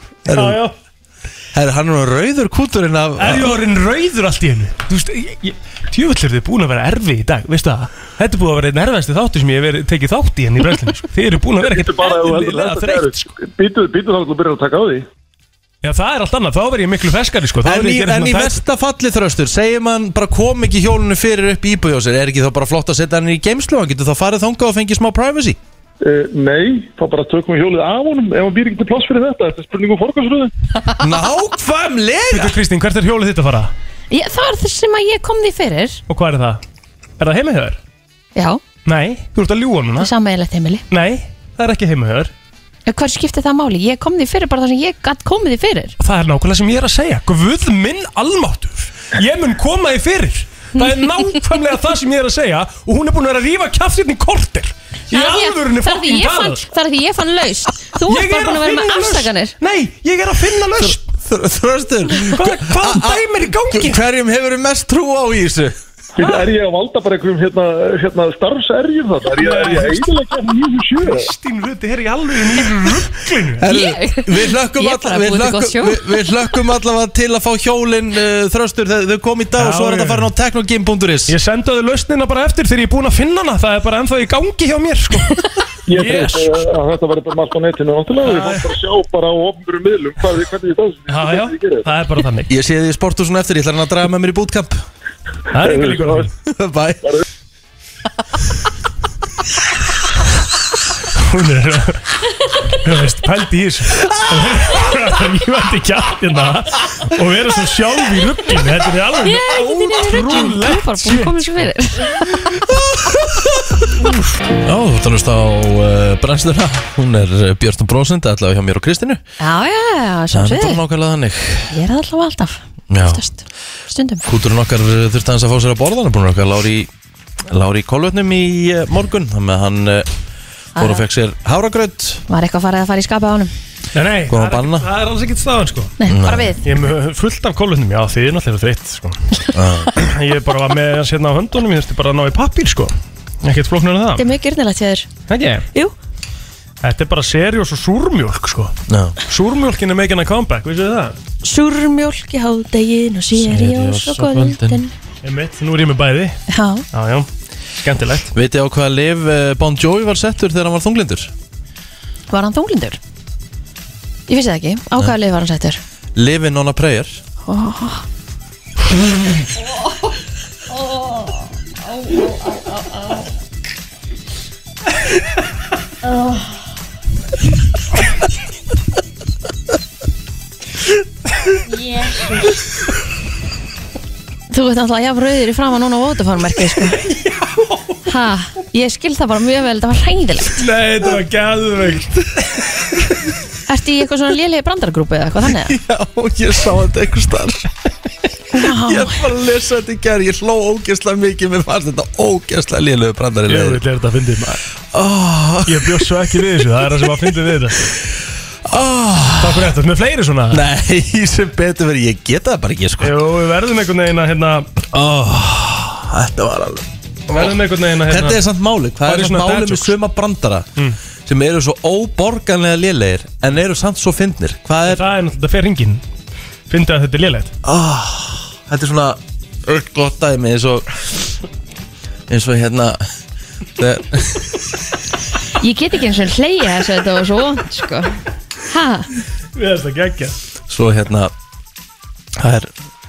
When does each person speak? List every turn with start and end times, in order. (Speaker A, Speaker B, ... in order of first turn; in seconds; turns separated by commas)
Speaker A: 0.3-0.6, Speaker B: 0.3-0.7, Speaker A: 1.5-3.5, Speaker B: 3.2-13.3, Speaker C: 11.6-15.1, Speaker B: 15.8-18.6, Speaker A: 17.6-25.6, Speaker C: 26.0-30.5, Speaker A: 31.0-32.6, Speaker B: 32.3-33.7, Speaker D: 34.1-36.0, Speaker B: 36.1-36.6, Speaker B: 37.2-37.8, Speaker D: 38.4-38.6, Speaker B: 38.9-40.1, Speaker D: 40.0-40.8, Speaker B: 40.9-42.3, Speaker D: 42.9-46.0, Speaker B: 46.0-56.6, Speaker D: 55.1-59.5, Speaker B: 58.0-61.0, Speaker A: 60.8-65.8, Speaker B: 62.2-64.0, Speaker C: 66.2-71.3, Speaker B: 69.4-70.1, Speaker B: 71.0-73.7, Speaker A: 73.6-81.3, Speaker D: 73.7-76.3, Speaker B: 79.6-80.3, Speaker B: 81.3-86.6, Speaker C: 85.9-91.9, Speaker B: 88.2-88.7, Speaker B: 91.1-92.5, Speaker A: 92.5-94.8, Speaker B: 95.5-96.3, Speaker C: 95.6-96.3, Speaker A: 96.5-97.0, Speaker B: 101.2-102.1, Speaker B: 102.7-111.7, Speaker D: 109.2-112.4, Speaker A: 112.6-113.9, Speaker A: 114.6-119.2, Speaker D: 119.4-120.8, Speaker A: 120.3-121.7, Speaker D: 121.7-124.2, Speaker A: 122.9-123.2, Speaker A: 124.2-126.9, Speaker A: 127.5-130.1, Speaker D: 130.8-131.0, Speaker A: 130.8-132.2, Speaker D: 132.3-133.5, Speaker B: 133.9-136.0, Speaker A: 134.3-134.9, Speaker D: 136.0-136.6, Speaker A: 136.1-136.5, Speaker B: 136.6-139.2, Speaker A: 139.5-139.9, Speaker B: 140.0-144.3, Speaker D: 144.2-145.1, Speaker B: 145.3-145.7, Speaker B: 146.8-148.7, Speaker A: 148.9-149.2, Speaker B: 149.2-151.2, Speaker D: 151.4-154.9, Speaker A: 153.4-154.8, Speaker B: 155.2-156.4, Speaker D: 156.5-156.8, Speaker B: 156.9-158.3, Speaker A: 158.3-161.3, Speaker D: 162.3-163.0, Speaker D: 164.3-165.8, Speaker A: 166.2-167.2, Speaker D: 167.4-168.1, Speaker D: 172.0-172.3, Speaker D: 184.5-187.0, Speaker D: 188.1-190.6, Speaker B: 190.6-192.4, Speaker D: 193.7-195.8, Speaker A: 195.6-197.7, Speaker D: 198.5-199.2, Speaker A: 198.6-203.8, Speaker B: 203.5-204.6, Speaker A: 204.9-206.4, Speaker B: 205.7-207.8, Speaker A: 207.0-207.4, Speaker A: 208.7-209.8, Speaker B: 209.4-210.6, Speaker A: 210.5-213.2, Speaker B: 213.0-214.7, Speaker A: 214.8-217.4, Speaker B: 217.3-218.4, Speaker A: 218.1-220.7, Speaker B: 219.0-219.9, Speaker A: 221.3-225.0, Speaker B: 224.9-226.0, Speaker B: 226.7-227.5, Speaker A: 227.6-231.4, Speaker A: 232.3-233.0, Speaker A: 233.8-234.6, Speaker D: 235.6-238.2, Speaker D: 238.7-239.1, Speaker B: 239.6-240.4, Speaker A: 240.7-241.3, Speaker A: 242.4-242.7